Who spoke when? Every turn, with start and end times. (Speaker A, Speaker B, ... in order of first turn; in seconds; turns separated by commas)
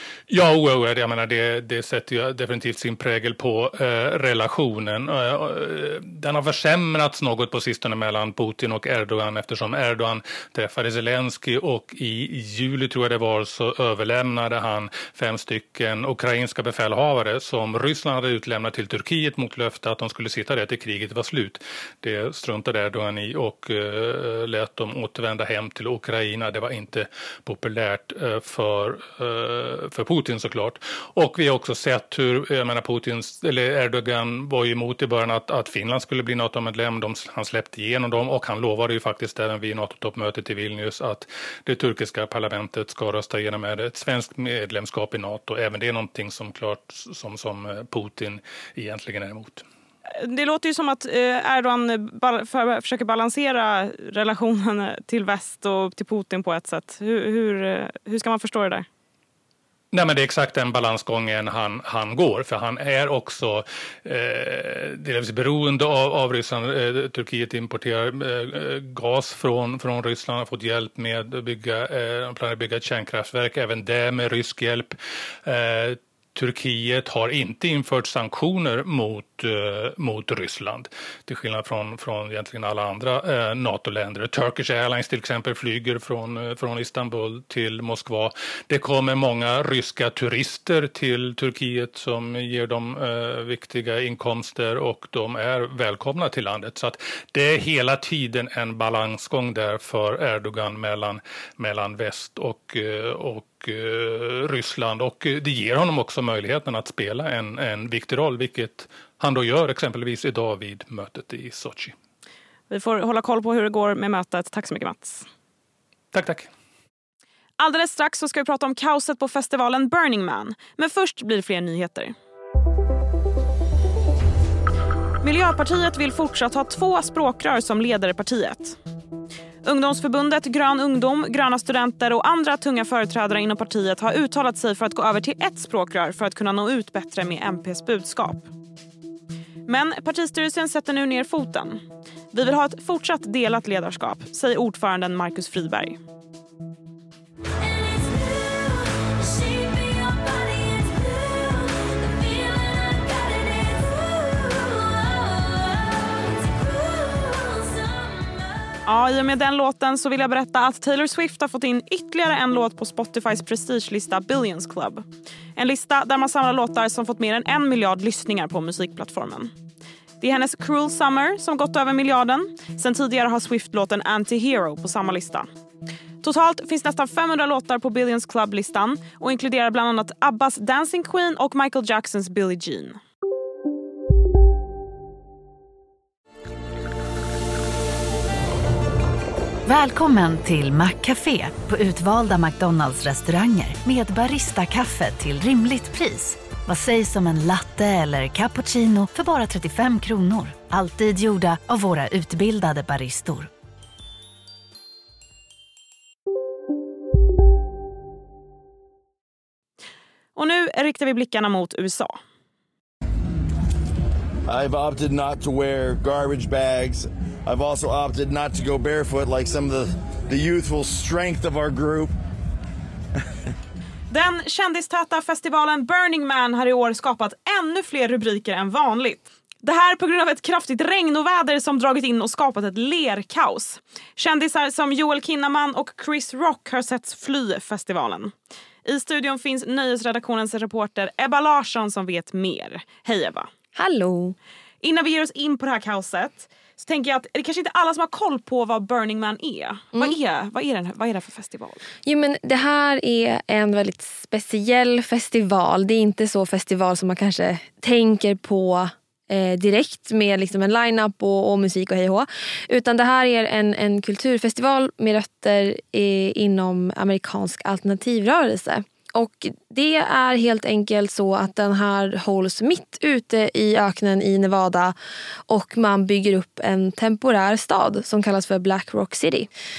Speaker A: 0.3-49.6, Speaker B: 50.2-58.9, Speaker A: 59.9-111.9, Speaker B: 112.7-115.2, Speaker A: 116.1-116.5, Speaker B: 117.6-122.1, Speaker B: 125.2-128.8, Speaker B: 129.6-138.5, Speaker B: 139.7-141.8, Speaker B: 142.3-146.0, Speaker C: 149.0-151.8, Speaker C: 152.7-154.1, Speaker B: 158.8-169.5, Speaker B: 170.2-175.5, Speaker B: 176.2-183.0, Speaker C: 189.7-203.5, Speaker B: 210.3-212.2, Speaker D: 214.5-222.1, Speaker B: 224.1-243.5, Speaker E: 243.7-244.3, Speaker B: 244.8-251.8, Speaker E: 252.0-274.9, Speaker E: 275.5-279.5